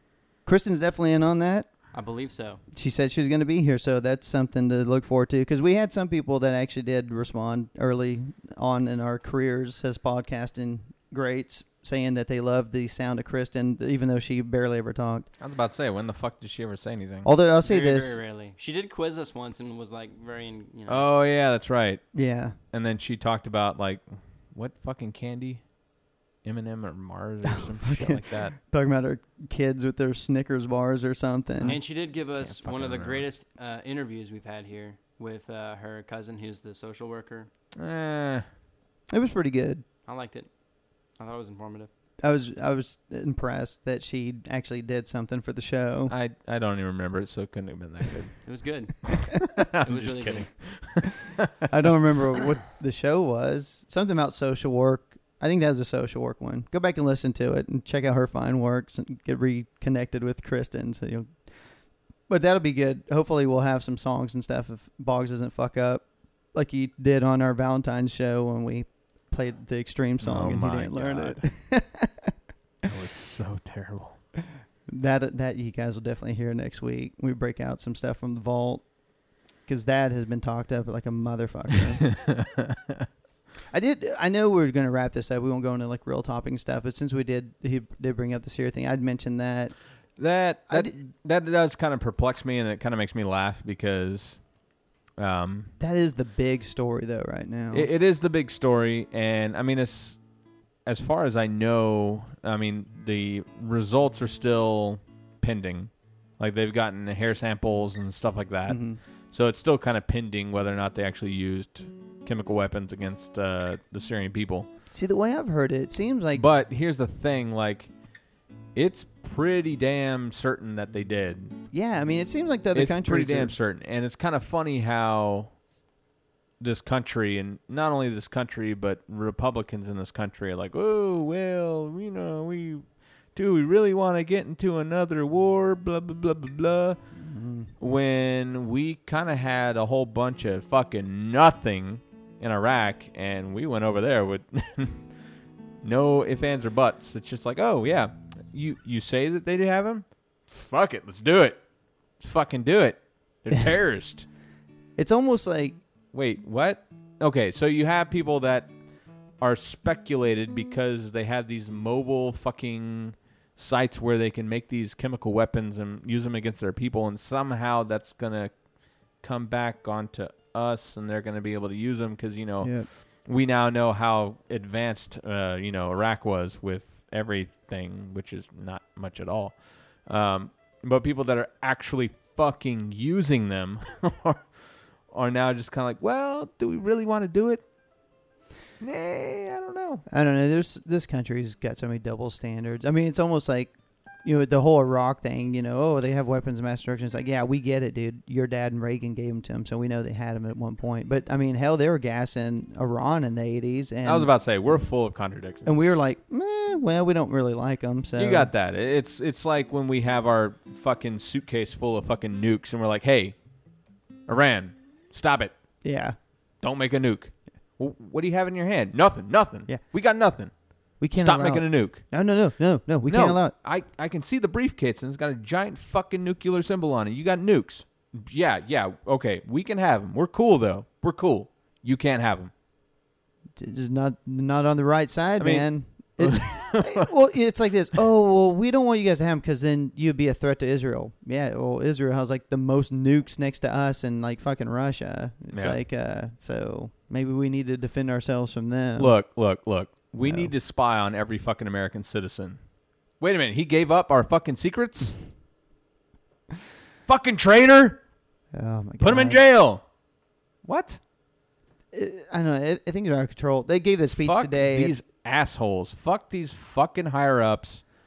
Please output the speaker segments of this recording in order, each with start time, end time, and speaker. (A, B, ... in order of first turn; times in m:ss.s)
0:00.4-0:02.0 A
0:01.9-0:02.6 B
0:02.7-0:15.3 A
0:15.4-0:17.3 C
0:17.2-0:18.2 A
0:17.6-0:21.0 B
0:20.9-0:25.8 C
0:22.1-0:22.6 A
0:26.4-0:28.5 C
0:27.8-0:31.8 A
0:31.6-0:33.3 C
0:31.6-0:37.5 B
0:37.8-0:38.5 C
0:39.1-0:39.8 A
0:40.0-0:41.9 B
0:42.2-0:46.1 A
0:46.1-0:48.4 C
0:48.4-0:49.2 B
0:49.1-0:51.3 C
0:49.8-0:50.7 B
0:51.7-1:12.3 A
1:10.2-1:11.5 C
1:12.9-1:14.2 C
1:14.9-1:22.1 A
1:22.3-1:23.1 C
1:23.7-1:29.9 A
1:30.2-1:34.5 C
1:30.7-1:31.0 A
1:35.2-1:35.7 C
1:35.8-1:37.9 A
1:37.7-1:40.2 C
1:40.8-1:54.7 C
1:48.7-1:49.0 A
1:54.9-1:56.4 A
1:56.3-1:57.9 C
1:58.7-2:01.6 C
2:01.7-2:03.5 A
2:02.7-2:05.6 C
2:06.6-2:17.0 C
2:17.2-2:17.7 A
2:17.8-2:25.1 C
2:25.8-2:31.6 C
2:32.2-2:34.3 C
2:35.0-2:35.8 A
2:36.1-2:38.8 C
2:39.3-3:07.6 C
2:52.6-2:52.9 A
3:08.8-3:10.0 C
3:10.1-3:24.3 A
3:24.0-3:25.9 C
3:25.6-3:28.5 A
3:28.2-3:33.5 C
3:34.2-3:35.5 C
3:35.8-3:36.2 A
3:36.6-3:42.2 C
3:41.0-3:43.5 A
3:43.0-3:52.5 C
3:53.6-4:09.2 A
3:55.4-3:57.1 C
4:05.5-4:05.8 C
4:09.0-4:15.2 C
4:10.2-4:10.5 A
4:17.1-4:18.1 C
4:18.5-4:19.4 A
4:19.0-4:19.9 C
4:20.6-4:21.0 C
4:21.9-4:25.0 A
4:24.2-4:27.8 C